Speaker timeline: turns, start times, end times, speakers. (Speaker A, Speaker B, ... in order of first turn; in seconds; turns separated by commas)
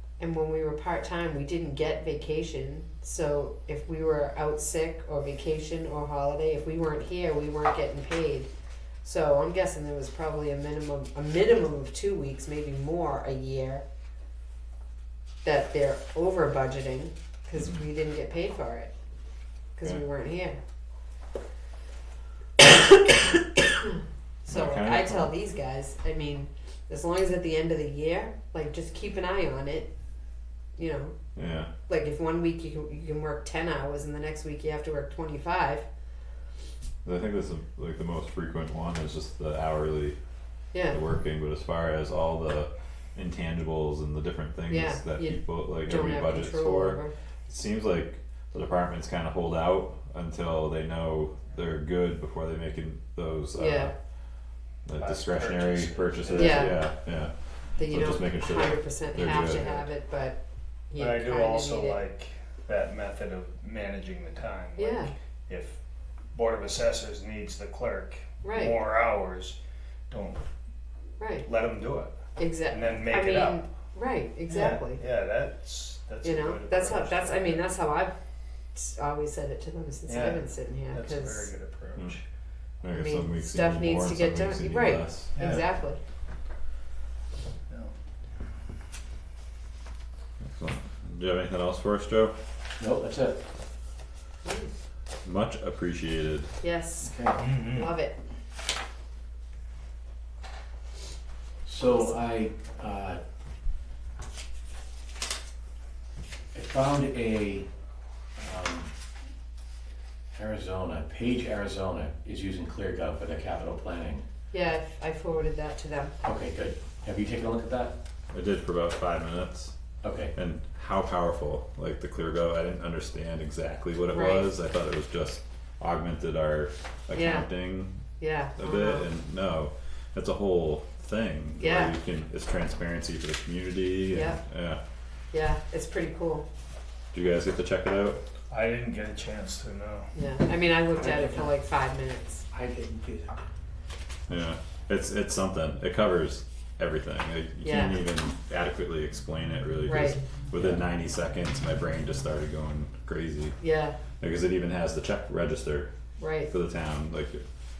Speaker A: 0.2-8.5, Speaker A: 9.0-13.8, Speaker A: 15.4-18.9, Speaker A: 19.8-20.6, Speaker A: 22.6-23.4, Speaker A: 24.4-29.9, Speaker B: 24.5-25.3, Speaker A: 30.8-31.1, Speaker B: 31.3-31.7, Speaker A: 31.9-35.9, Speaker B: 37.0-40.2, Speaker A: 40.7-41.0, Speaker B: 40.9-53.9, Speaker A: 44.7-47.1, Speaker A: 53.5-53.9, Speaker B: 54.9-59.7, Speaker C: 55.0-56.8, Speaker A: 56.3-56.8, Speaker A: 57.8-62.0, Speaker C: 61.0-65.8, Speaker A: 64.8-65.1, Speaker C: 66.3-69.6, Speaker A: 68.4-68.8, Speaker C: 70.1-70.4, Speaker A: 71.2-71.5, Speaker C: 71.4-72.2, Speaker A: 72.4-75.0, Speaker C: 72.7-73.7, Speaker C: 74.5-77.7, Speaker A: 76.2-78.1, Speaker A: 78.7-81.5, Speaker C: 80.1-82.2, Speaker B: 82.8-85.6, Speaker A: 82.9-86.0, Speaker C: 85.3-85.7, Speaker C: 87.7-87.9, Speaker B: 90.4-92.3, Speaker D: 92.8-93.4, Speaker B: 95.2-96.5, Speaker A: 96.6-98.2, Speaker D: 97.0-97.4, Speaker C: 97.4-97.9, Speaker D: 101.6-103.2, Speaker D: 106.5-107.7, Speaker D: 108.4-108.9, Speaker D: 110.3-114.2, Speaker A: 114.5-116.1, Speaker D: 116.2-118.0, Speaker B: 118.3-119.7, Speaker D: 120.0-120.3, Speaker B: 120.3-128.0, Speaker A: 124.1-124.5, Speaker A: 127.1-127.5, Speaker A: 128.2-129.1, Speaker B: 128.6-134.8, Speaker A: 131.6-131.9, Speaker A: 134.1-134.4, Speaker A: 135.3-136.4, Speaker B: 137.1-138.2, Speaker C: 138.5-140.1, Speaker A: 140.1-142.4, Speaker B: 144.3-153.6, Speaker A: 147.6-148.0, Speaker A: 149.8-150.2, Speaker D: 150.6-150.8, Speaker A: 153.6-154.0, Speaker B: 154.2-155.9, Speaker A: 156.2-156.5, Speaker B: 156.5-157.4